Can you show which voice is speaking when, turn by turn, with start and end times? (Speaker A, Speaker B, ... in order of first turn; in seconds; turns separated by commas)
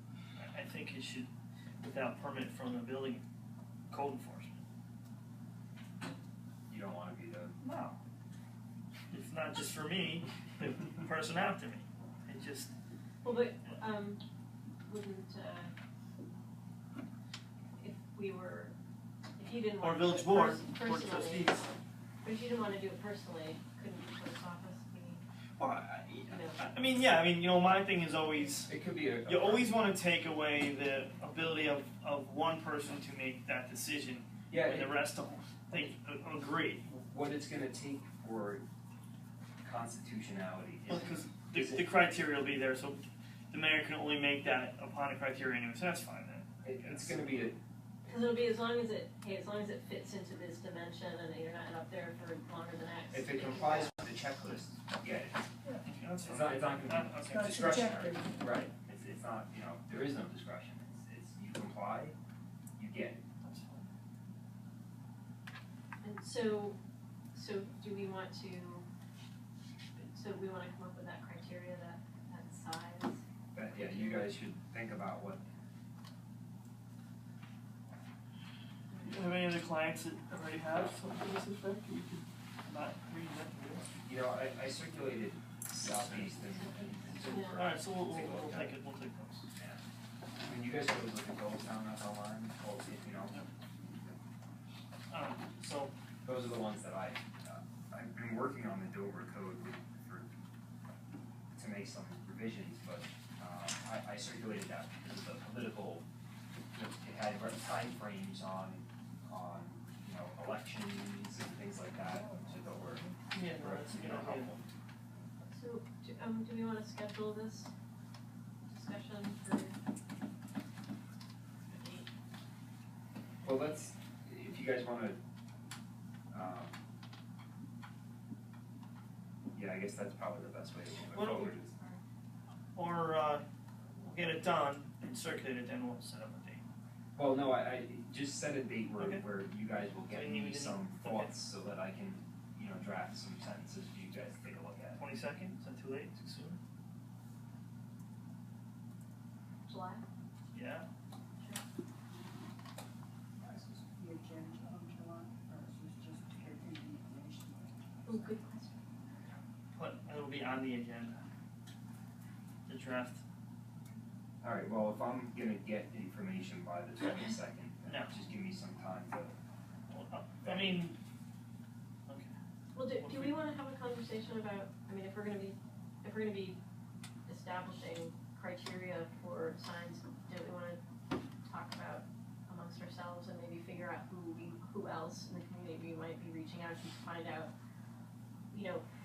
Speaker A: 0.3-1.3, Speaker A: 1.8-3.2, Speaker A: 3.9-4.6, Speaker B: 6.7-7.5, Speaker A: 7.6-8.0, Speaker A: 9.1-12.7, Speaker C: 13.2-14.2, Speaker C: 14.8-15.7, Speaker C: 17.8-18.7, Speaker C: 19.4-21.6, Speaker A: 19.8-21.7, Speaker C: 22.2-25.2, Speaker A: 25.6-36.8, Speaker C: 26.3-26.6, Speaker B: 28.6-29.7, Speaker B: 34.5-35.0, Speaker B: 36.8-38.6, Speaker B: 39.6-41.9, Speaker A: 40.9-47.5, Speaker B: 46.6-47.6, Speaker C: 48.0-53.9, Speaker B: 53.1-55.4, Speaker A: 55.8-57.9, Speaker B: 56.2-62.1, Speaker D: 57.3-58.4, Speaker B: 62.8-63.2, Speaker A: 63.4-63.9, Speaker C: 66.0-66.8, Speaker C: 67.3-68.8, Speaker C: 70.0-73.2, Speaker B: 73.5-75.4, Speaker C: 73.7-74.2, Speaker C: 78.9-79.2, Speaker A: 79.0-83.9, Speaker B: 84.0-88.8, Speaker C: 86.3-87.7, Speaker A: 87.6-89.5, Speaker B: 89.5-89.8, Speaker B: 90.4-94.2, Speaker A: 95.1-95.9, Speaker B: 96.2-100.3, Speaker B: 101.5-106.0, Speaker B: 106.7-114.6, Speaker D: 112.0-113.2, Speaker A: 113.3-114.6, Speaker C: 115.4-117.7, Speaker C: 118.7-119.7, Speaker C: 121.7-122.1, Speaker B: 123.4-125.2, Speaker B: 126.3-126.8, Speaker B: 129.5-131.7, Speaker A: 131.1-131.6, Speaker C: 131.7-132.0, Speaker A: 132.7-133.4, Speaker A: 134.0-136.6, Speaker B: 137.2-145.0, Speaker A: 139.0-139.2, Speaker A: 140.1-141.3, Speaker A: 145.0-146.6, Speaker C: 149.7-150.0, Speaker A: 150.5-150.9, Speaker D: 153.4-158.4, Speaker C: 158.1-158.8, Speaker A: 159.7-161.2, Speaker A: 162.7-163.2, Speaker B: 164.4-169.3, Speaker A: 167.8-168.1, Speaker A: 169.9-171.0, Speaker B: 170.4-170.9, Speaker A: 172.1-172.3, Speaker C: 172.7-176.6, Speaker A: 172.9-173.4, Speaker C: 177.3-180.8, Speaker C: 181.4-187.5, Speaker C: 188.5-188.8